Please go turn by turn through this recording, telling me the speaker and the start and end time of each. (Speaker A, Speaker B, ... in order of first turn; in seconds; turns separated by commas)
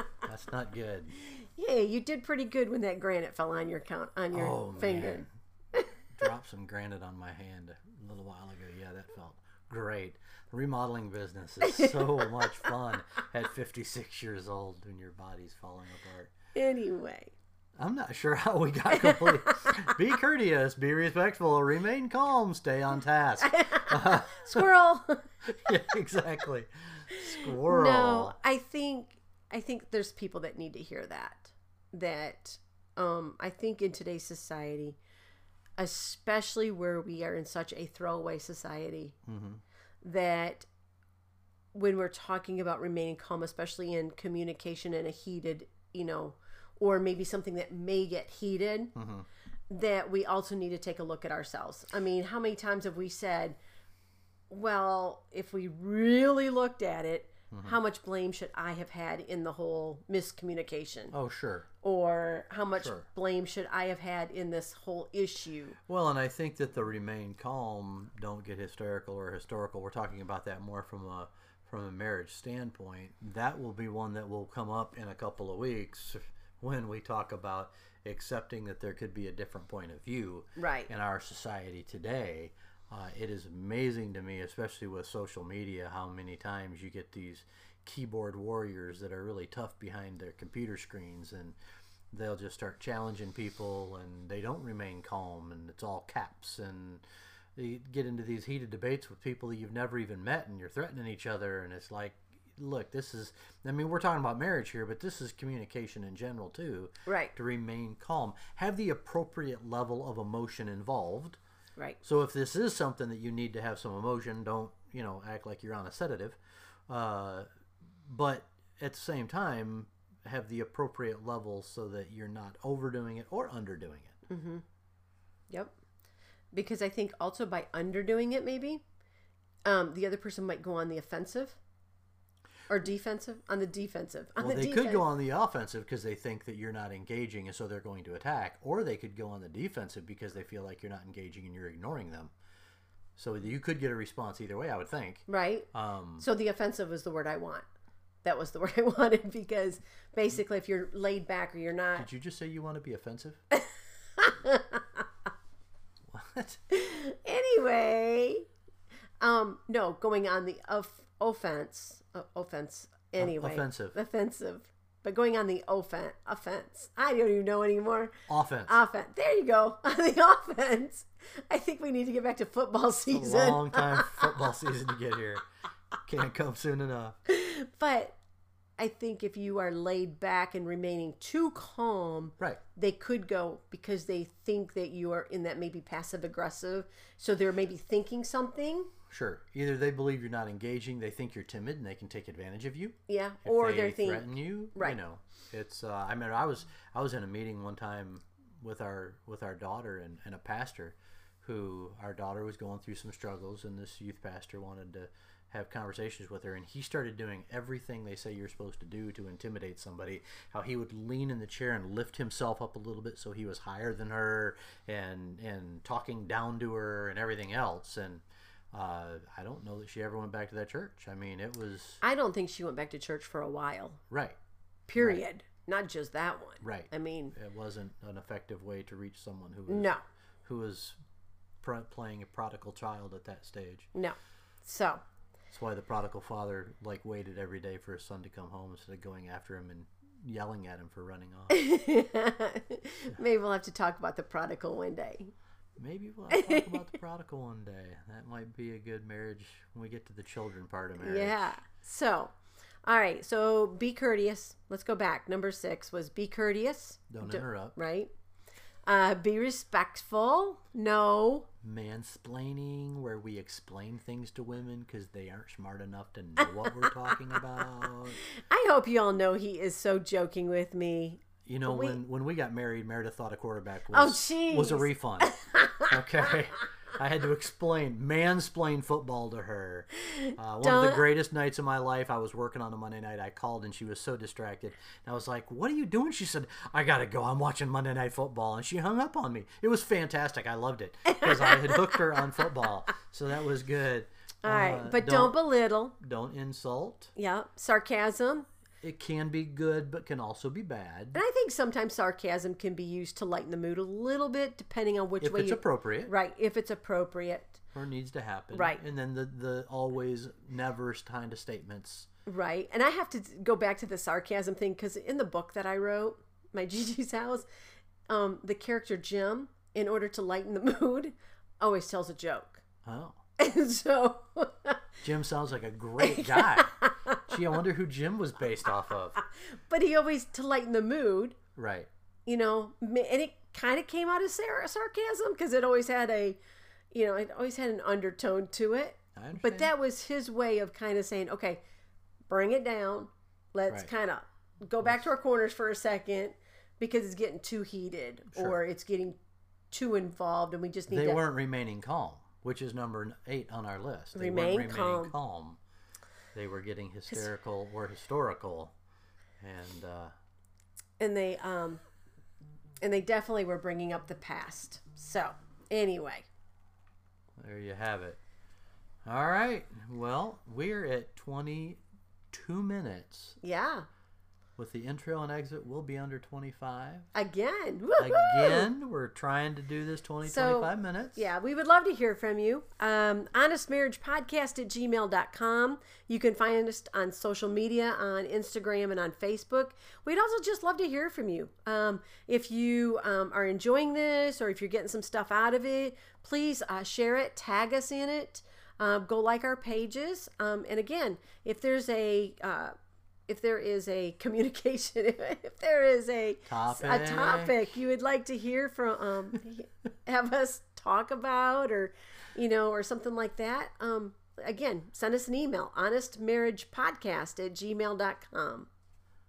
Speaker A: 0.2-1.1, Speaker B: 1.2-5.9, Speaker A: 4.3-5.3, Speaker A: 6.1-16.3, Speaker B: 11.6-12.7, Speaker B: 16.5-17.3, Speaker A: 17.8-24.7, Speaker B: 18.9-19.9, Speaker B: 23.4-25.6, Speaker A: 25.4-28.4, Speaker B: 27.1-35.0, Speaker B: 35.8-39.2, Speaker A: 39.2-39.6, Speaker B: 40.0-40.7, Speaker B: 41.7-48.9, Speaker A: 48.9-49.2, Speaker B: 49.7-53.6, Speaker B: 54.5-61.1, Speaker A: 57.5-57.8, Speaker A: 61.1-61.7, Speaker B: 61.8-65.8, Speaker A: 62.8-63.0, Speaker A: 65.9-91.6, Speaker B: 80.6-80.9, Speaker A: 92.1-97.0, Speaker A: 97.5-111.4, Speaker B: 107.0-107.3, Speaker A: 112.0-117.5, Speaker A: 118.0-124.2, Speaker B: 124.3-124.6, Speaker B: 126.5-128.8, Speaker B: 129.6-131.6, Speaker B: 132.7-135.0, Speaker A: 134.4-142.3, Speaker A: 143.2-146.2, Speaker B: 145.3-145.7, Speaker B: 146.2-147.7, Speaker B: 148.2-152.1, Speaker A: 151.9-153.4, Speaker B: 153.5-155.1, Speaker A: 156.1-156.6, Speaker B: 156.7-158.5, Speaker B: 159.2-174.4, Speaker A: 163.2-163.9, Speaker A: 168.3-168.8, Speaker A: 173.1-175.4, Speaker A: 176.0-177.2, Speaker B: 177.2-178.2, Speaker B: 178.8-188.9, Speaker A: 189.1-222.0, Speaker B: 193.1-195.0, Speaker B: 222.0-224.0, Speaker A: 224.1-224.4, Speaker B: 224.9-227.3, Speaker A: 225.0-225.2, Speaker A: 226.6-229.9, Speaker B: 229.7-230.0, Speaker A: 230.4-231.0, Speaker A: 231.6-233.9, Speaker B: 233.9-235.0, Speaker A: 235.5-241.6, Speaker B: 241.5-245.3, Speaker A: 245.8-251.5, Speaker B: 246.3-246.9, Speaker B: 251.0-252.3, Speaker B: 252.8-258.1, Speaker A: 257.1-257.8, Speaker B: 258.9-261.5, Speaker A: 261.6-268.2, Speaker B: 268.3-272.0, Speaker A: 271.4-295.4, Speaker B: 273.9-276.3, Speaker B: 280.0-281.1, Speaker B: 291.1-292.5, Speaker B: 294.4-295.9, Speaker A: 296.0-297.1, Speaker B: 297.1-298.5, Speaker A: 298.8-301.2, Speaker B: 301.1-307.6, Speaker A: 305.2-306.1, Speaker A: 307.7-312.1, Speaker B: 308.5-308.8, Speaker B: 312.2-317.4, Speaker B: 318.1-322.6, Speaker A: 322.8-323.2, Speaker B: 323.4-324.9, Speaker A: 325.0-326.7, Speaker B: 326.0-327.4, Speaker A: 327.2-329.2, Speaker B: 329.2-331.4, Speaker A: 331.6-331.9, Speaker B: 332.2-336.4, Speaker B: 336.9-341.6, Speaker A: 339.1-339.7, Speaker B: 342.3-349.2, Speaker A: 348.3-348.6, Speaker B: 349.7-351.2, Speaker A: 350.9-355.6, Speaker B: 354.1-355.1, Speaker A: 356.3-358.7, Speaker A: 359.4-360.1, Speaker B: 361.0-361.8, Speaker B: 362.8-366.2, Speaker A: 367.4-368.2, Speaker A: 369.0-371.8, Speaker A: 372.3-373.4, Speaker B: 373.4-373.9, Speaker A: 374.6-377.1, Speaker B: 377.1-378.7, Speaker A: 378.0-381.2, Speaker B: 380.2-402.7, Speaker B: 403.3-418.7, Speaker A: 406.5-407.6